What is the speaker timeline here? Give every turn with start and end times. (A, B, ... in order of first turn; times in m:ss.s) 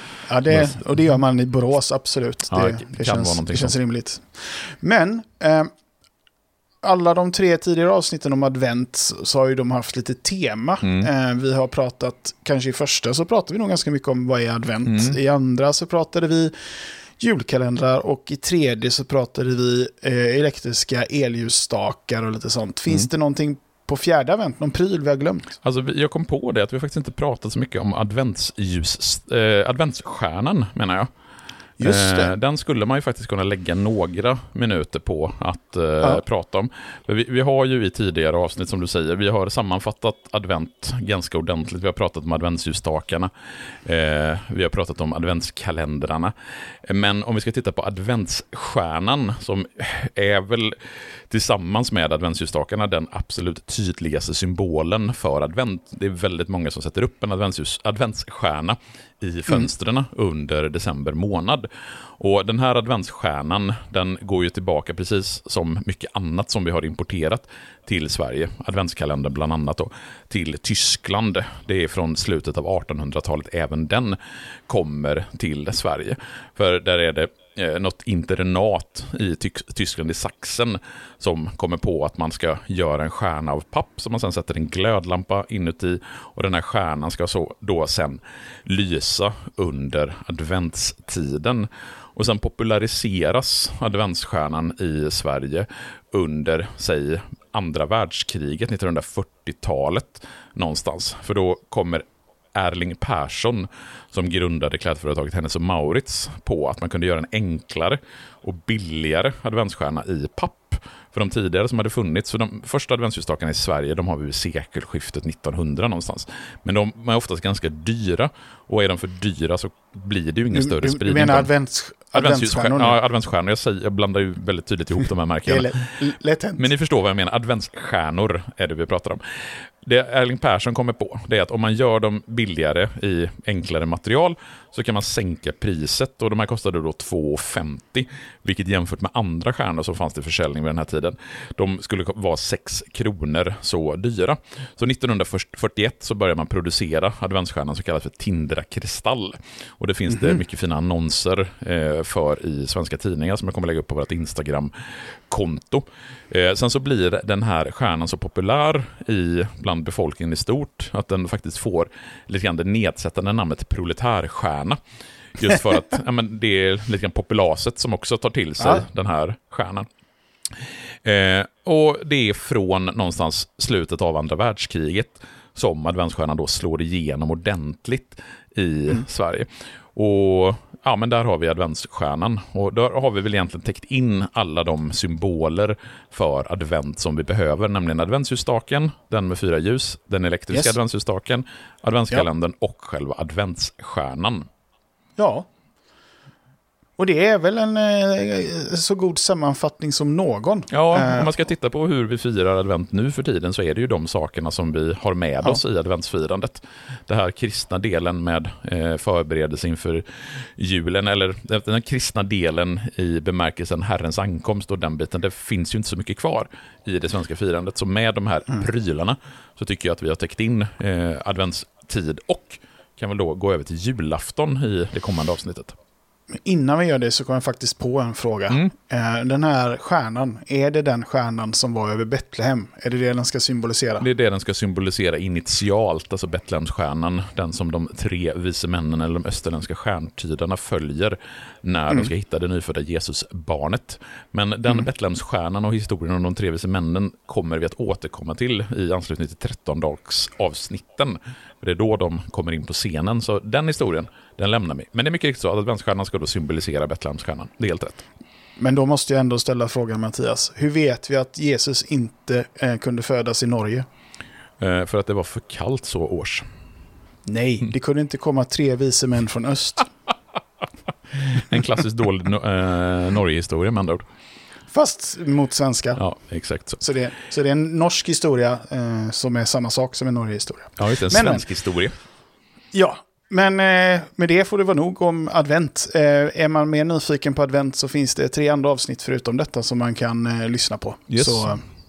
0:00.3-0:05.7 A
0:00.5-0:00.7 B
0:02.5-0:03.8 B
0:06.8-0:16.6 A
0:10.8-0:11.1 B
0:14.8-0:15.2 B
0:17.2-0:25.5 A
0:25.6-0:31.1 B
0:31.8-0:32.3 A
0:31.8-0:43.3 B
0:43.8-0:46.3 B
0:46.8-0:50.8 B
0:51.3-1:01.7 B
1:02.2-1:14.2 B
1:14.7-2:01.5 B
2:00.5-2:03.0 A
2:02.1-2:05.9 B
2:05.4-2:06.7 A
2:06.6-2:09.2 B
2:09.8-2:34.7 B
2:35.3-2:44.8 B
2:45.3-2:49.9 B
2:51.0-3:14.4 B
3:15.2-3:15.5 A
3:17.0-3:21.3 A
3:20.7-3:45.7 B
3:46.3-3:54.1 A
3:54.0-4:18.0 B
4:18.6-4:23.9 A
4:24.6-4:26.4 B
4:27.2-4:29.9 A
4:31.1-4:34.0 B
4:34.7-4:36.0 A
4:36.0-4:36.8 B
4:36.8-4:41.5 A
4:40.8-4:41.9 B
4:42.7-4:51.6 A
4:51.1-4:51.6 B